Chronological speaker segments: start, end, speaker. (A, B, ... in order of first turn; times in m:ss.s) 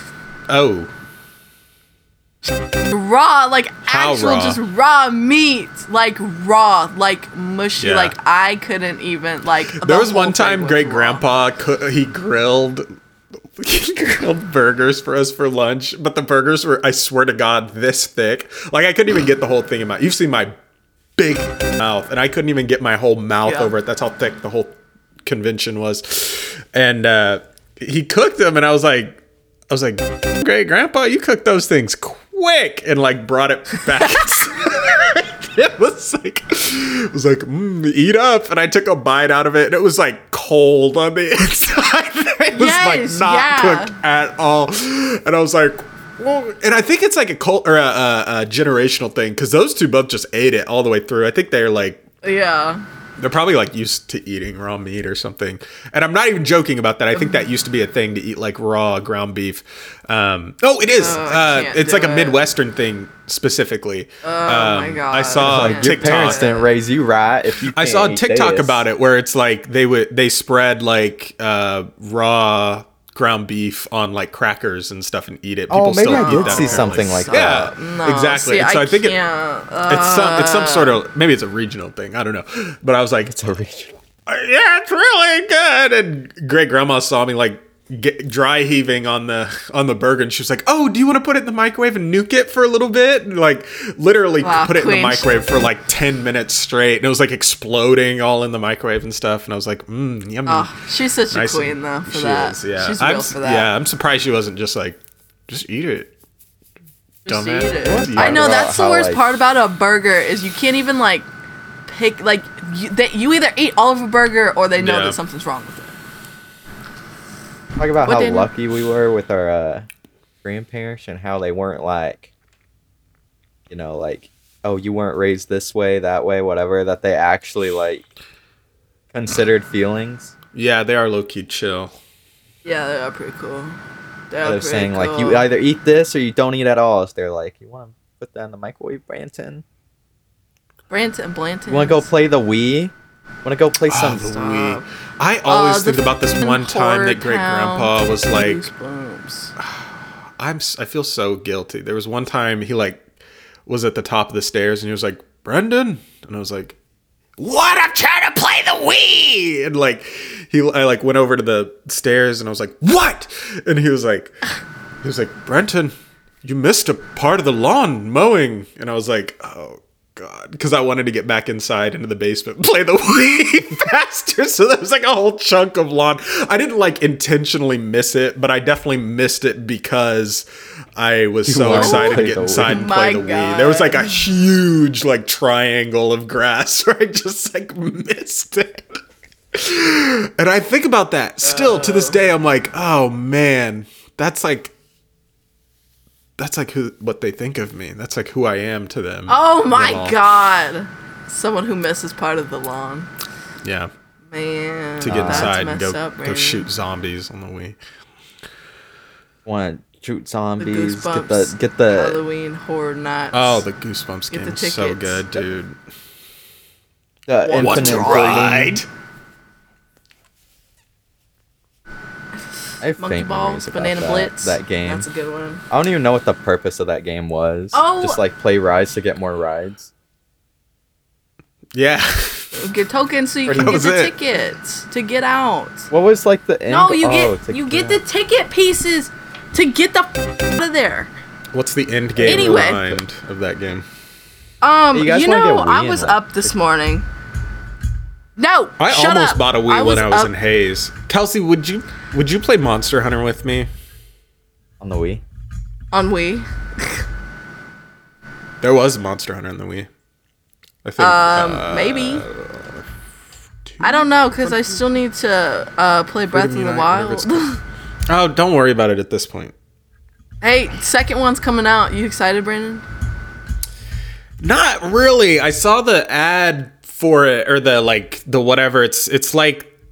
0:00.5-0:00.9 A
0:02.9-0:11.2 B
0:03.9-0:04.6 A
0:07.8-0:08.1 A
0:09.7-0:12.9 A
0:13.6-0:20.5 A
0:21.2-0:52.0 A
0:23.4-0:23.7 B
0:34.0-0:34.5 B
0:42.5-0:44.0 B
0:52.2-0:52.8 B
0:53.2-1:06.4 A
0:57.1-0:57.4 B
1:01.0-1:02.4 B
1:04.2-1:06.7 B
1:05.4-1:08.8 C
1:07.7-1:19.2 A
1:15.7-1:17.7 C
1:16.0-1:21.0 B
1:19.9-1:23.6 A
1:23.3-1:23.9 C
1:24.3-1:40.7 A
1:34.4-1:35.3 B
1:40.5-1:43.7 B
1:41.3-1:46.1 A
1:47.2-1:48.7 A
1:47.2-1:51.3 B
1:47.9-1:49.2 C
1:51.8-1:55.9 B
1:54.8-1:55.2 A
1:57.8-1:59.8 C
1:58.0-1:58.5 B
2:00.4-2:02.3 C
2:03.7-2:08.0 C
2:09.1-2:10.3 C
2:10.5-2:11.9 A
2:12.6-2:13.8 B
2:14.3-2:15.5 B
2:14.4-2:19.6 C
2:20.9-2:22.1 B
2:21.7-2:24.3 C
2:23.9-2:28.6 A
2:24.3-2:24.8 B
2:25.5-2:29.5 B
2:30.4-2:33.0 A
2:33.7-2:36.8 A
2:37.4-2:44.3 A
2:45.0-2:45.9 A
2:46.4-3:09.0 A
3:01.4-3:02.8 C
3:01.7-3:04.2 B
3:09.5-3:14.7 A
3:11.4-3:12.2 B
3:16.4-3:20.2 A
3:19.3-3:23.1 B
3:23.6-3:23.9 A
3:24.3-3:26.7 B
3:25.0-3:27.8 A
3:25.0-3:25.5 C
3:29.4-3:32.2 C
3:30.6-3:33.6 B
3:33.3-3:35.8 A
3:34.3-3:35.4 B
3:37.3-3:38.8 C
3:37.4-3:38.5 B
3:37.5-3:38.9 A
3:42.8-3:45.1 C
3:43.0-3:45.6 B
3:45.7-3:49.9 C
3:47.7-3:48.2 B
3:51.7-3:52.5 A
3:52.6-3:55.9 B
3:53.5-3:53.8 C
3:53.5-3:54.2 A
3:55.9-3:58.0 C
3:56.7-4:01.1 B
4:01.5-4:03.8 A
4:02.2-4:03.0 C
4:02.2-4:02.9 B
4:04.6-4:07.0 B
4:04.9-4:06.5 C
4:08.4-4:10.3 B
4:08.8-4:13.7 A
4:14.8-4:15.2 C
4:15.9-4:17.0 B
4:18.6-4:19.9 A
4:20.8-4:22.8 A
4:21.0-4:22.2 B
4:23.7-4:24.8 A
4:23.8-4:27.6 B
4:26.3-4:27.4 A
4:28.1-4:29.5 A
4:30.4-4:32.8 B
4:34.4-4:39.7 A